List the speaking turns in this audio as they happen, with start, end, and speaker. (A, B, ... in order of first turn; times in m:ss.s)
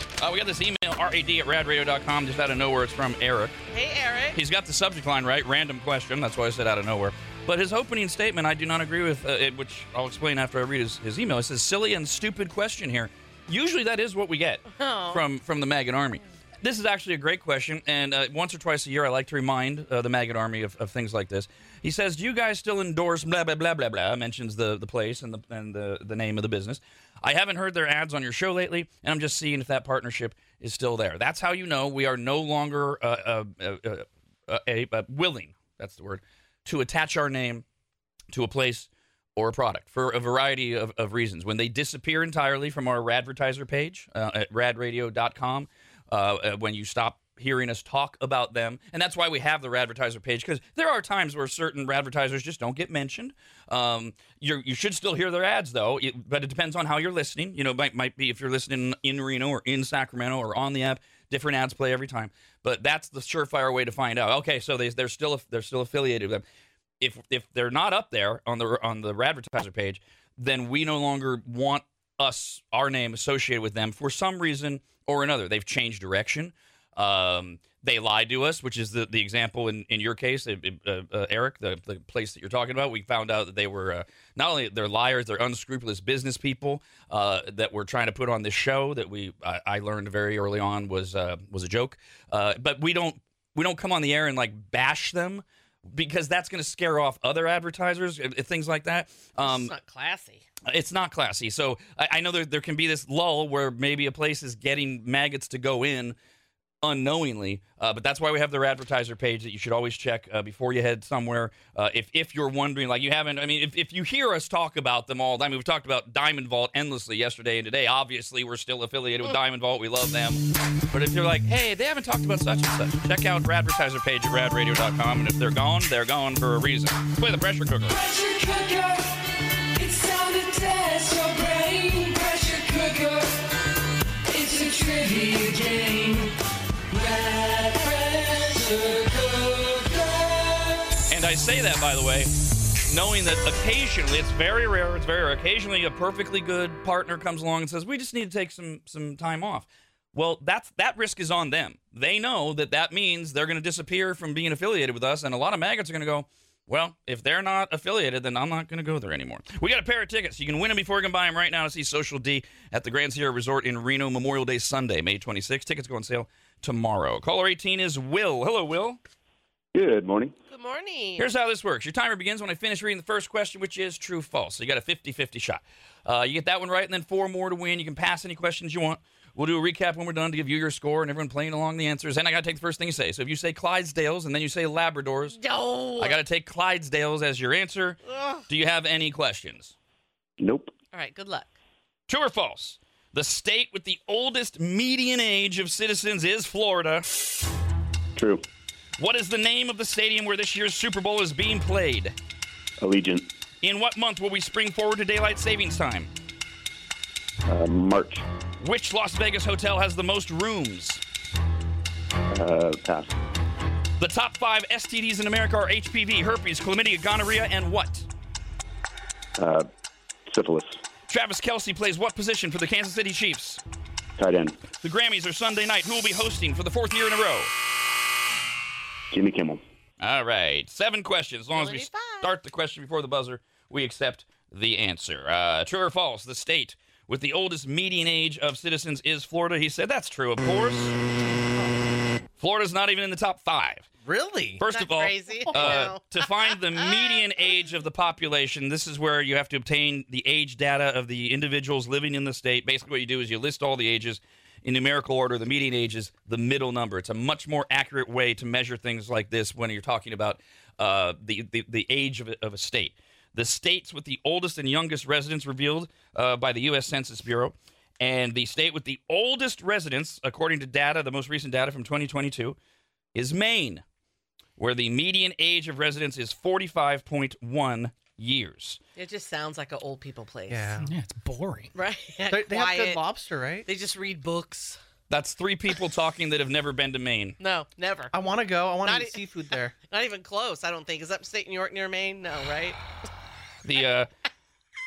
0:00.2-0:03.6 A
0:03.7-0:04.4 B
0:04.4-0:37.6 A
0:14.7-0:15.2 B
0:38.3-1:06.4 A
1:07.0-1:39.7 A
1:39.4-1:40.4 B
1:40.7-1:46.2 A
1:46.8-2:08.0 A
2:07.9-2:09.0 C
2:09.8-2:13.3 C
2:14.3-2:16.3 C
2:16.9-2:20.7 C
2:21.1-2:22.3 A
2:22.9-2:49.0 A
2:49.7-2:50.3 D
2:50.5-2:51.3 B
2:51.2-3:05.4 A
3:05.4-3:06.2 B
3:06.0-3:09.8 A
3:08.1-3:08.4 B
3:10.4-3:10.7 D
3:10.9-3:11.5 B
3:12.1-3:17.1 A
3:18.2-3:18.4 D
3:19.0-3:22.2 A
3:22.8-3:23.3 D
3:23.6-3:26.1 A
3:27.5-3:28.2 D
3:28.6-3:31.0 A
3:32.3-3:33.2 D
3:34.0-3:38.1 A
3:39.4-3:39.7 D
3:40.3-3:40.8 D
3:41.1-3:43.6 A
3:44.2-3:44.6 D
3:44.8-3:47.5 A
3:49.1-3:49.6 D
3:50.0-4:00.9 A
3:51.5-3:52.3 B
4:02.4-4:03.9 A
4:04.4-4:07.0 B
4:04.6-4:32.6 A
4:33.2-4:33.8 A
4:34.6-4:38.8 A
4:39.0-4:40.8 B
4:40.8-4:41.7 C
4:41.8-4:43.0 B
4:42.3-4:43.7 E
4:43.7-4:44.8 B
4:45.1-4:47.4 A
4:47.4-4:48.2 B
4:48.1-4:49.7 E
4:48.8-4:52.8 B
4:53.6-4:54.1 A